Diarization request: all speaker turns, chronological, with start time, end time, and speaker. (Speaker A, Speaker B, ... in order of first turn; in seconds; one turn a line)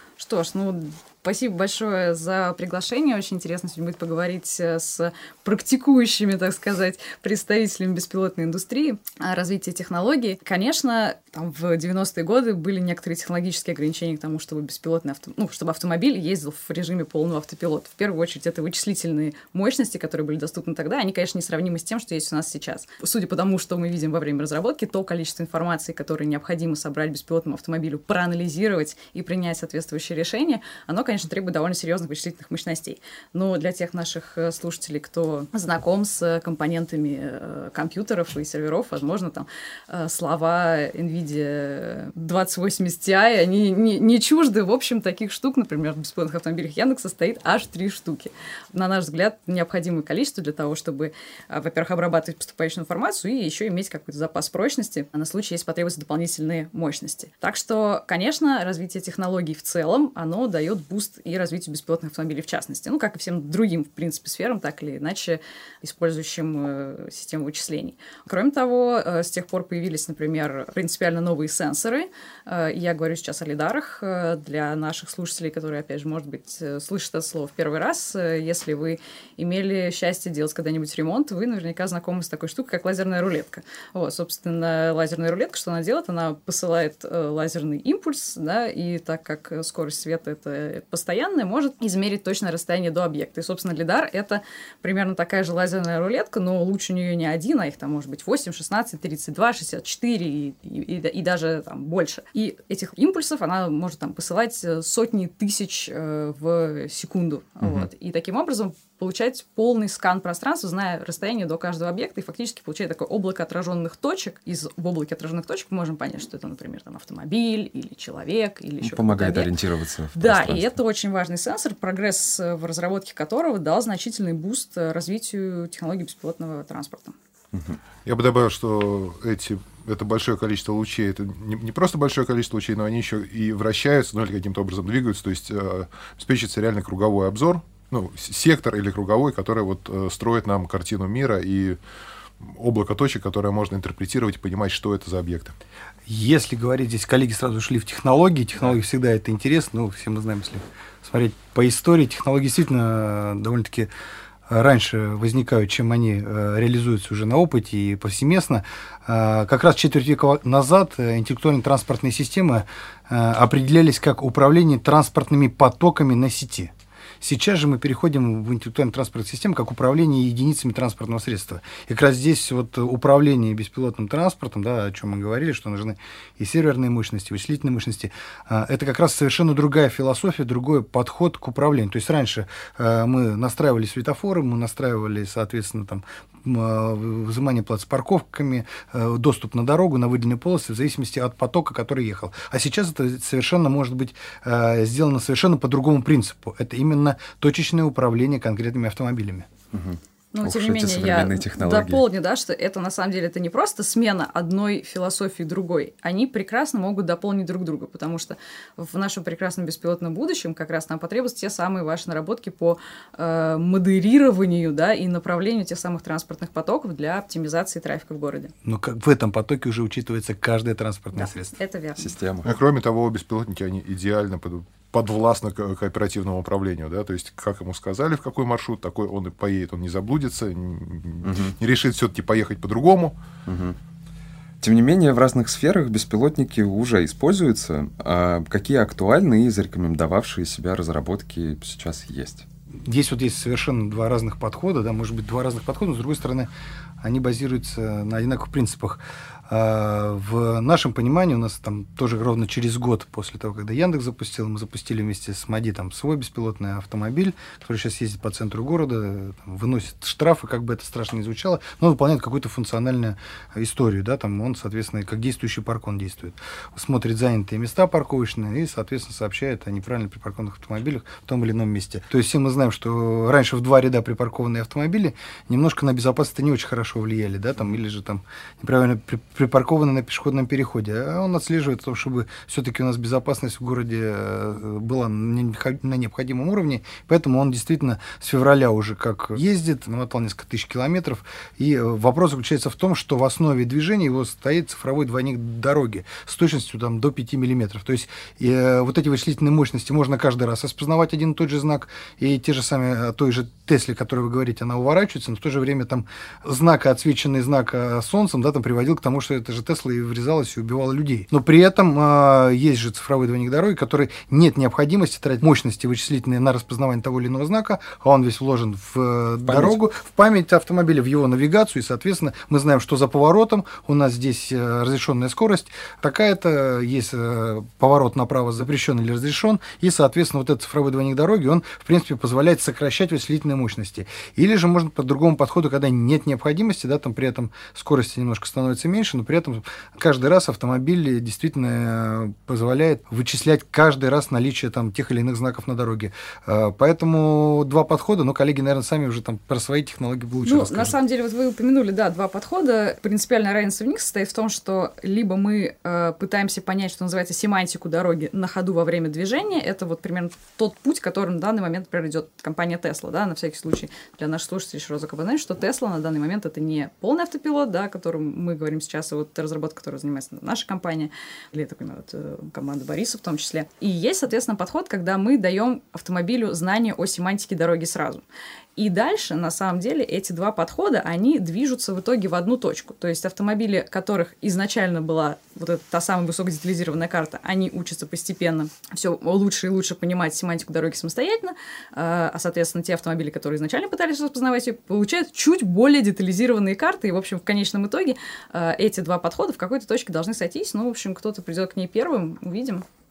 Speaker A: 0.2-119.5
Speaker B: 107.6-107.9
Speaker B: 118.8-120.8
Speaker A: 120.1-127.1
Speaker C: 128.0-141.8
Speaker C: 142.4-145.5
Speaker D: 146.1-153.9
Speaker D: 154.5-199.5
Speaker B: 199.7-202.0
Speaker A: 200.3-218.5
Speaker D: 218.6-221.6
Speaker A: 221.2-222.1
Speaker B: 222.0-222.5
Speaker C: 222.4-233.2
Speaker B: 231.2-231.6
Speaker B: 233.4-233.8
Speaker B: 234.6-242.4
Speaker D: 242.8-246.5
Speaker D: 247.0-351.0
Speaker B: 319.4-319.8
Speaker A: 350.4-378.2
Speaker A: 378.8-402.8